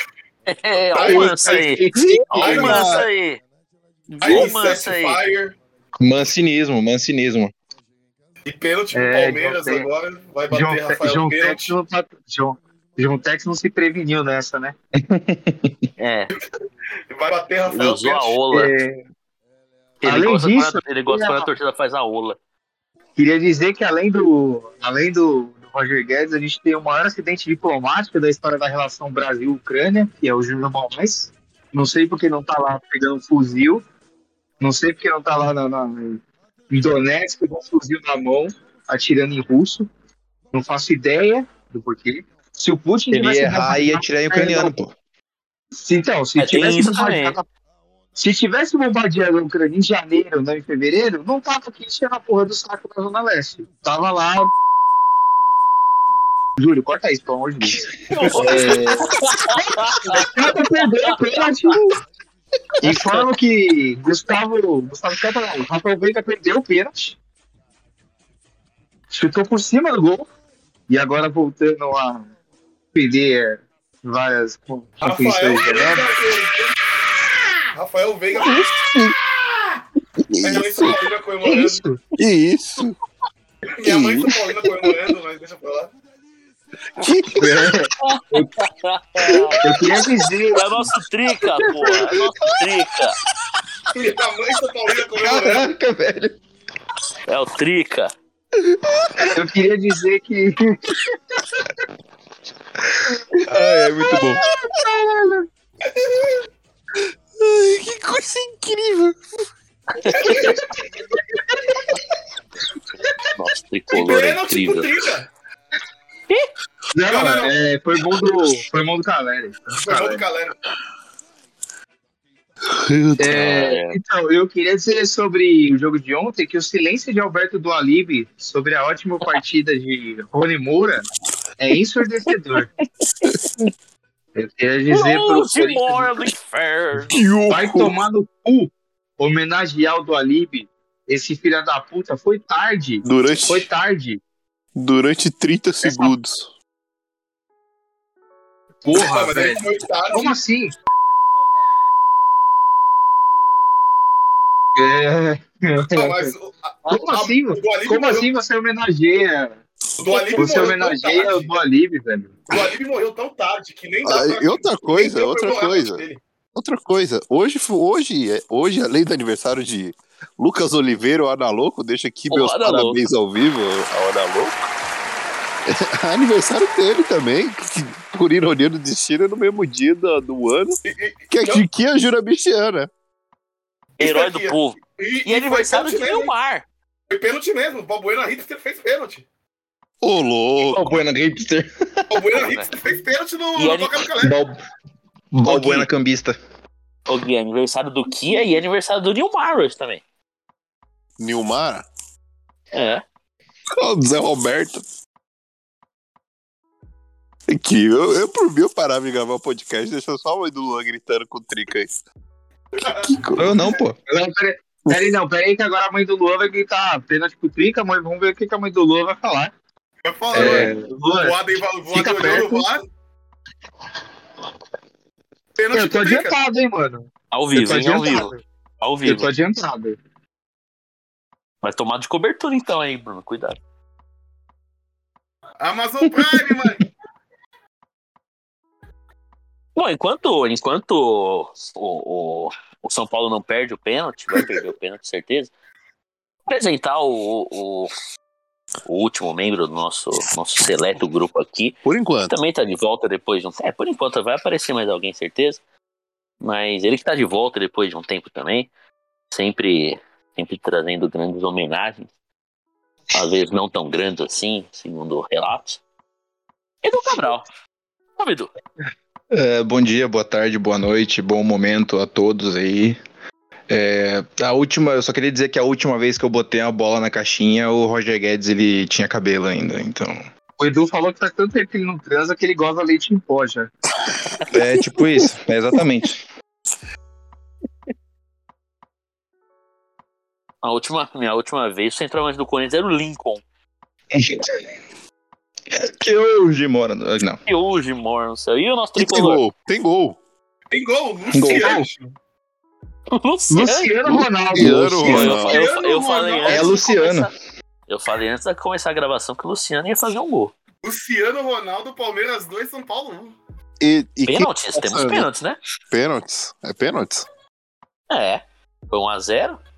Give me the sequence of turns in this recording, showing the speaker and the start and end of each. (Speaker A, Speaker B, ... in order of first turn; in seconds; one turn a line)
Speaker A: 0.5-3.4
Speaker B: 0.9-1.7
Speaker C: 1.0-3.0
Speaker B: 2.4-3.1
Speaker D: 2.4-2.9
Speaker A: 4.1-5.2
Speaker B: 4.2-5.6
Speaker E: 6.0-7.5
Speaker B: 8.4-11.8
Speaker C: 8.9-9.8
Speaker C: 10.5-14.7
Speaker E: 15.0-15.9
Speaker A: 16.0-16.3
Speaker B: 17.1-18.4
Speaker A: 17.7-18.7
Speaker C: 18.5-19.0
Speaker A: 20.0-22.4
Speaker C: 20.0-21.5
Speaker C: 23.2-33.8
Speaker C: 34.6-39.9
Speaker C: 40.5-44.7
Speaker E: 43.1-44.9
Speaker C: 45.8-47.5
Speaker A: 46.4-47.4
Speaker C: 48.1-54.5
Speaker C: 56.6-61.9
Speaker E: 57.7-58.9
Speaker A: 58.1-60.7
Speaker C: 62.8-67.2
Speaker C: 69.1-70.2
Speaker C: 70.9-72.3
Speaker C: 72.9-76.1
Speaker B: 75.0-76.8
Speaker B: 77.7-78.9
Speaker D: 78.4-79.1
Speaker D: 80.3-81.0
Speaker B: 80.4-81.8
Speaker C: 81.4-82.0
Speaker D: 82.2-83.0
Speaker B: 83.8-85.9
Speaker D: 83.8-84.3
Speaker D: 87.0-87.7
Speaker E: 87.5-88.5
Speaker A: 88.0-90.0
Speaker C: 89.6-90.8
Speaker A: 90.5-93.2
Speaker B: 93.9-95.7
Speaker E: 95.2-96.4
Speaker A: 97.2-98.1
Speaker E: 98.6-99.3
Speaker C: 99.2-101.0
Speaker E: 103.3-104.4
Speaker C: 104.1-105.5
Speaker D: 107.0-109.2
Speaker B: 110.1-111.0
Speaker C: 110.2-110.5
Speaker A: 113.3-114.9
Speaker B: 113.9-115.3
Speaker C: 116.9-120.2
Speaker B: 117.0-117.6
Speaker B: 119.7-120.5
Speaker D: 122.7-123.4
Speaker C: 123.2-131.1
Speaker A: 123.3-124.0
Speaker C: 131.6-132.7
Speaker C: 134.3-136.3
Speaker A: 134.9-137.2
Speaker D: 137.1-137.9
Speaker C: 137.5-144.2
Speaker D: 143.0-143.7
Speaker D: 144.8-146.5
Speaker C: 145.8-146.1
Speaker C: 148.8-150.7
Speaker B: 148.9-150.4
Speaker C: 154.7-156.3
Speaker B: 155.9-158.3
Speaker C: 156.9-159.6
Speaker B: 160.0-161.5
Speaker C: 160.3-162.4
Speaker B: 162.5-166.2
Speaker D: 164.1-166.0
Speaker D: 166.6-174.7
Speaker A: 172.3-173.0
Speaker D: 175.7-180.8
Speaker B: 180.8-181.6
Speaker D: 181.3-182.9
Speaker B: 184.0-186.3
Speaker A: 184.0-186.6
Speaker B: 187.1-189.2
Speaker D: 190.0-191.0
Speaker E: 190.6-192.1
Speaker B: 192.1-194.4
Speaker A: 192.3-192.7
Speaker A: 193.6-194.0
Speaker E: 194.2-194.6
Speaker E: 195.3-196.3
Speaker B: 195.4-195.9
Speaker A: 197.1-200.0
Speaker D: 201.2-201.8
Speaker A: 202.7-203.0
Speaker D: 203.7-204.8
Speaker D: 207.5-211.9
Speaker B: 212.8-213.1
Speaker D: 212.9-213.6
Speaker E: 213.3-214.0
Speaker C: 214.1-219.5
Speaker B: 220.0-222.8
Speaker E: 220.3-220.7
Speaker C: 220.3-221.3
Speaker C: 221.9-222.7
Speaker B: 225.6-226.3
Speaker C: 225.7-228.4
Speaker A: 227.3-229.3
Speaker C: 229.0-230.0
Speaker A: 231.6-233.6
Speaker B: 235.6-236.9
Speaker A: 239.8-245.5
Speaker A: 246.5-247.9
Speaker A: 248.8-255.6
Speaker D: 251.8-252.3
Speaker A: 256.4-258.7
Speaker A: 259.3-262.1
Speaker A: 263.1-265.8
Speaker A: 266.8-267.4
Speaker A: 268.2-268.5
Speaker E: 269.3-273.0
Speaker E: 273.7-280.2
Speaker C: 280.6-283.7
Speaker E: 284.5-286.2
Speaker D: 285.0-285.2
Speaker A: 290.6-293.4
Speaker E: 294.1-294.5
Speaker E: 295.7-297.4
Speaker A: 297.4-299.4
Speaker D: 298.9-300.2
Speaker B: 300.7-302.1
Speaker E: 301.3-301.9
Speaker A: 303.1-304.3
Speaker C: 303.5-305.3
Speaker D: 304.5-305.6
Speaker A: 305.0-307.3
Speaker B: 305.3-306.8
Speaker E: 306.5-307.3
Speaker A: 307.9-310.5
Speaker B: 310.8-313.4
Speaker D: 313.8-315.3
Speaker A: 314.3-315.6
Speaker D: 315.9-317.2
Speaker A: 318.1-319.6